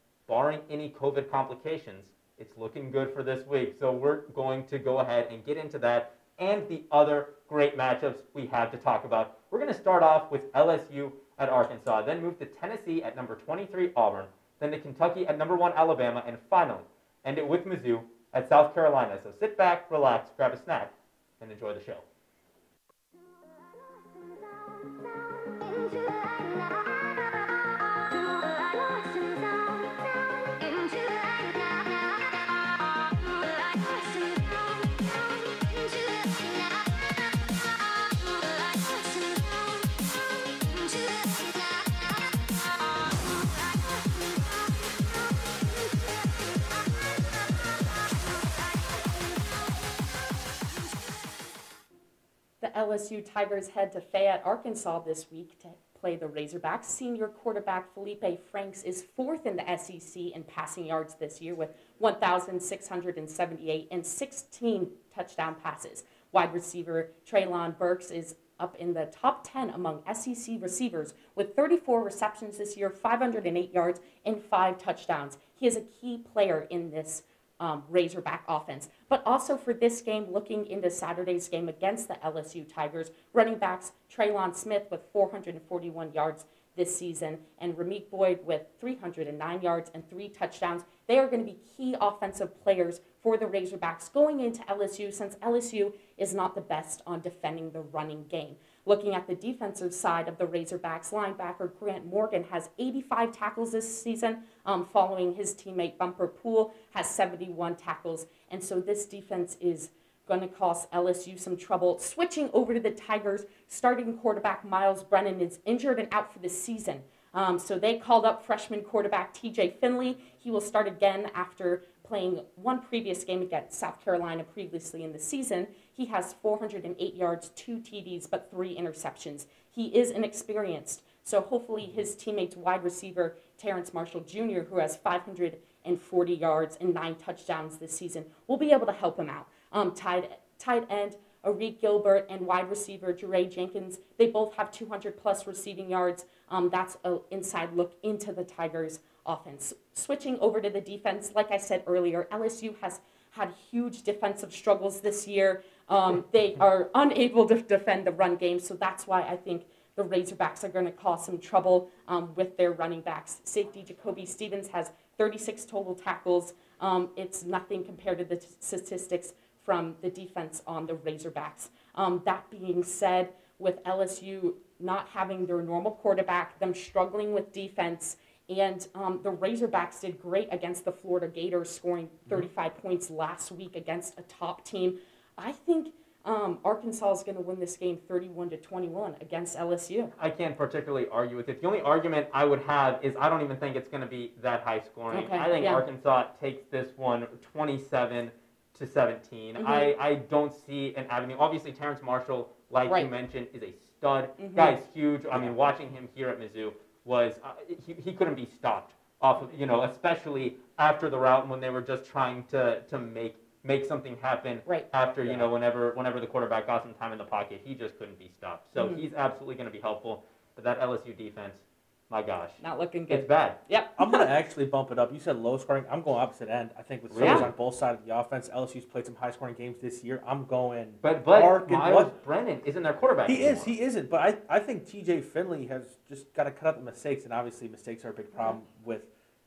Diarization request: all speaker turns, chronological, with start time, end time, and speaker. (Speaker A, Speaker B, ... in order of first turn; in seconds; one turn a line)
Speaker A: 0.3-22.0
Speaker B: 25.6-27.1
Speaker B: 28.2-30.0
Speaker B: 30.6-32.4
Speaker B: 33.7-36.9
Speaker B: 38.7-39.5
Speaker B: 40.8-42.2
Speaker B: 52.6-190.1
Speaker A: 190.1-223.6
Speaker B: 195.1-195.8
Speaker B: 199.6-199.9
Speaker B: 204.4-204.8
Speaker C: 205.3-205.6
Speaker C: 215.2-215.5
Speaker B: 218.8-219.0
Speaker B: 222.6-224.3
Speaker C: 224.0-232.1
Speaker A: 227.1-227.5
Speaker B: 227.2-227.5
Speaker A: 231.0-233.8
Speaker C: 233.2-239.1